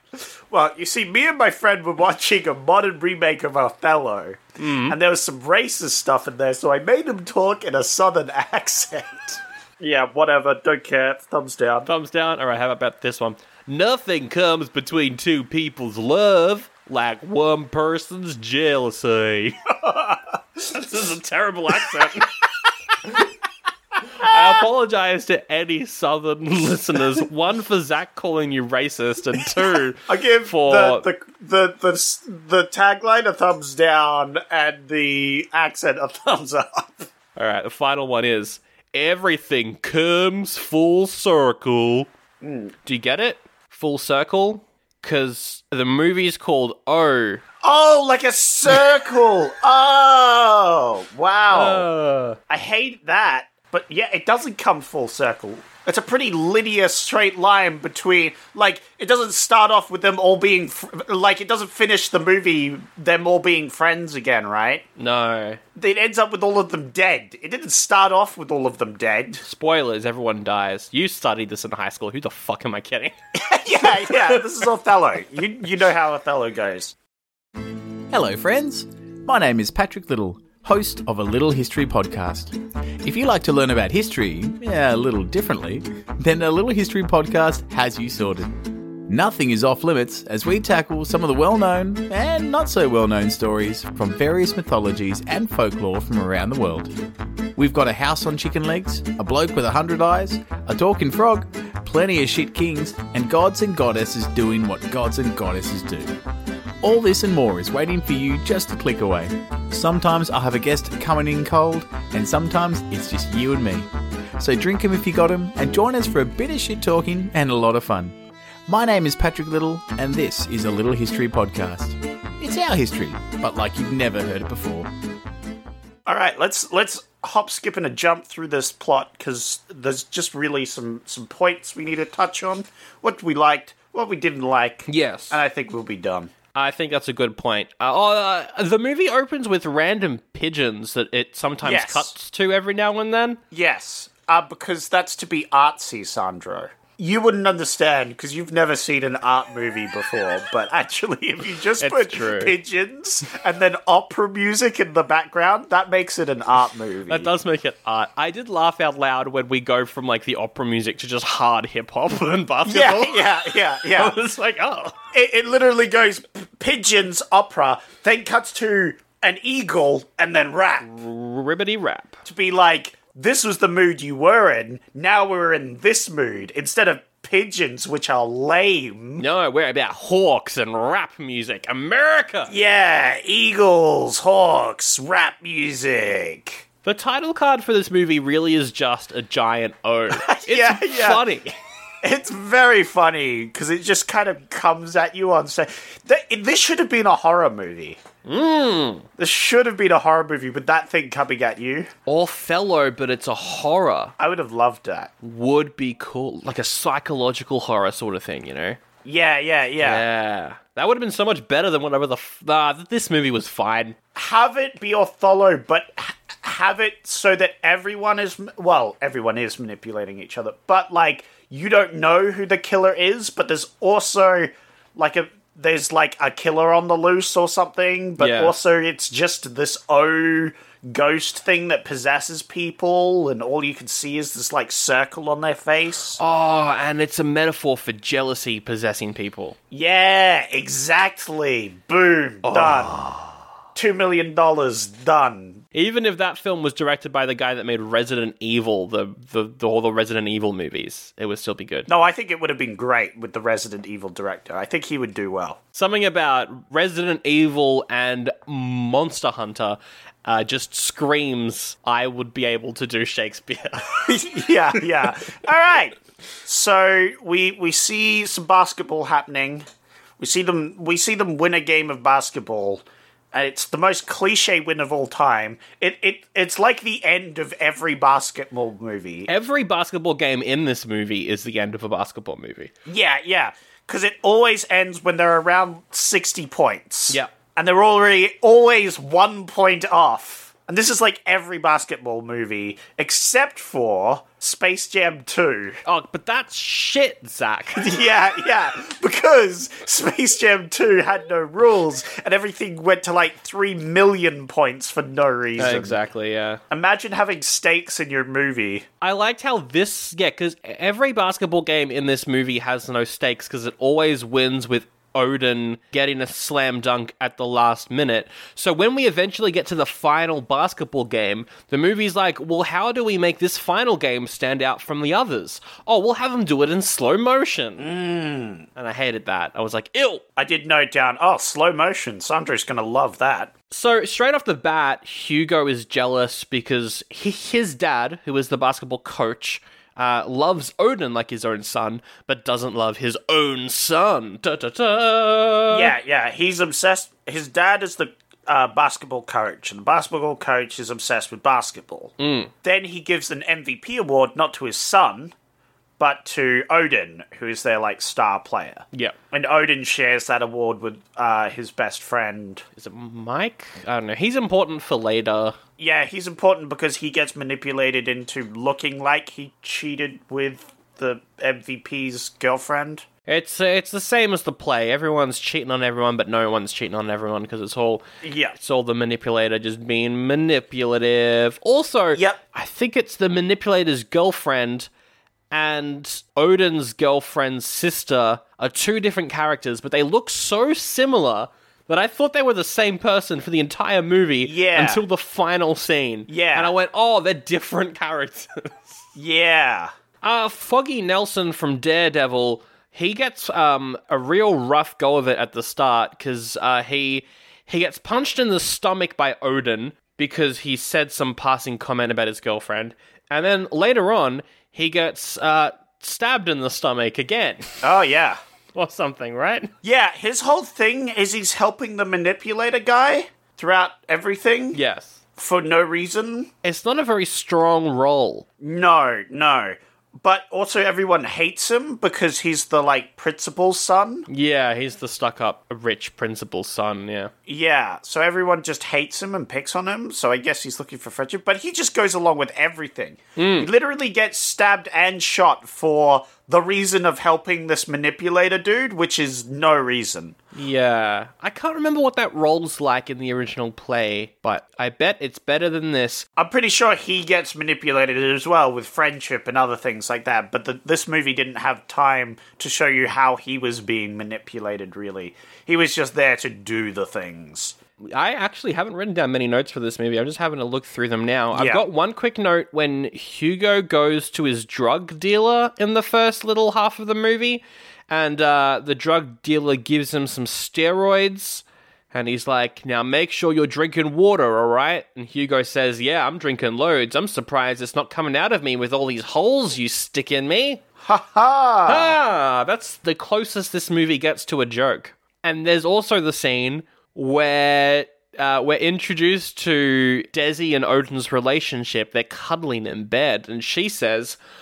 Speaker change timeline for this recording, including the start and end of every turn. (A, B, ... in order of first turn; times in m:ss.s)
0:00.5-0:11.9 A
0:04.6-0:05.0 B
0:11.8-0:19.6 B
0:19.8-0:20.8 A
0:20.7-0:22.3 B
0:24.2-0:31.1 B
0:30.1-0:37.1 A
0:37.4-0:42.1 B
0:42.4-0:42.7 A
0:42.9-0:47.4 B
0:47.6-0:51.9 A
0:51.5-0:52.4 B
0:52.5-1:04.8 A
1:05.0-1:05.6 B
1:05.8-1:09.4 A
1:09.4-1:13.1 B
1:13.4-1:16.9 A
1:14.0-1:14.4 B
1:18.1-1:28.5 C
1:29.1-1:36.9 C
1:37.6-1:46.2 C
1:46.8-2:04.9 C
2:06.1-2:16.3 A
2:14.9-2:15.4 B
2:16.6-2:23.4 B
2:21.6-2:22.1 A
2:23.5-2:37.3 A
2:31.8-2:32.6 B
2:37.1-2:45.0 B
2:42.6-2:44.2 A
2:45.1-2:50.9 A
2:50.8-2:52.2 B
2:52.2-2:59.2 A
2:59.2-3:02.5 B
3:02.5-3:06.6 A
3:06.8-3:11.5 B
3:10.1-3:11.2 A
3:12.0-3:18.0 A
3:18.2-3:19.1 B
3:19.2-3:21.9 A
3:22.1-3:24.1 B
3:24.2-3:25.1 A
3:25.2-3:28.8 B
3:29.0-3:30.0 A
3:29.8-3:34.0 B
3:34.2-3:56.2 A
3:48.2-3:48.6 B
3:56.2-3:59.6 B
3:59.7-4:03.0 A
4:02.4-4:03.3 B
4:03.7-4:05.6 A
4:05.7-4:11.9 B
4:11.9-4:15.6 A
4:15.7-4:24.0 B
4:24.1-4:29.6 A
4:30.2-4:39.3 A
4:39.3-4:42.7 B
4:42.9-4:55.8 A
4:55.8-4:57.9 B
4:57.8-5:06.0 A
5:05.6-5:06.6 B
5:06.7-5:08.8 A
5:09.0-5:27.9 B
5:27.8-5:28.7 A
5:28.8-5:30.2 B
5:30.4-5:33.5 A
5:33.7-5:45.9 B
5:45.7-5:55.3 A
5:52.2-5:52.5 B
5:56.0-6:02.6 A
6:02.8-6:05.6 B
6:05.8-6:13.0 A
6:13.3-6:18.0 B
6:18.2-6:18.6 A
6:18.6-6:24.9 B
6:25.5-6:39.1 B
6:34.4-6:35.0 A
6:36.3-6:36.7 A
6:39.2-6:39.9 A
6:40.2-6:57.7 B
6:57.8-6:58.4 A
6:58.7-6:59.7 B
6:59.8-7:04.8 A
7:04.7-7:05.2 B
7:05.4-7:06.5 A
7:06.6-7:08.4 B
7:08.6-7:14.3 A
7:14.3-7:17.3 B
7:17.5-7:30.4 A
7:23.4-7:23.7 B
7:30.6-7:36.2 B
7:36.4-7:47.8 A
7:48.1-8:10.8 B
7:51.5-7:51.8 A
8:11.0-8:12.2 A
8:11.9-8:24.4 B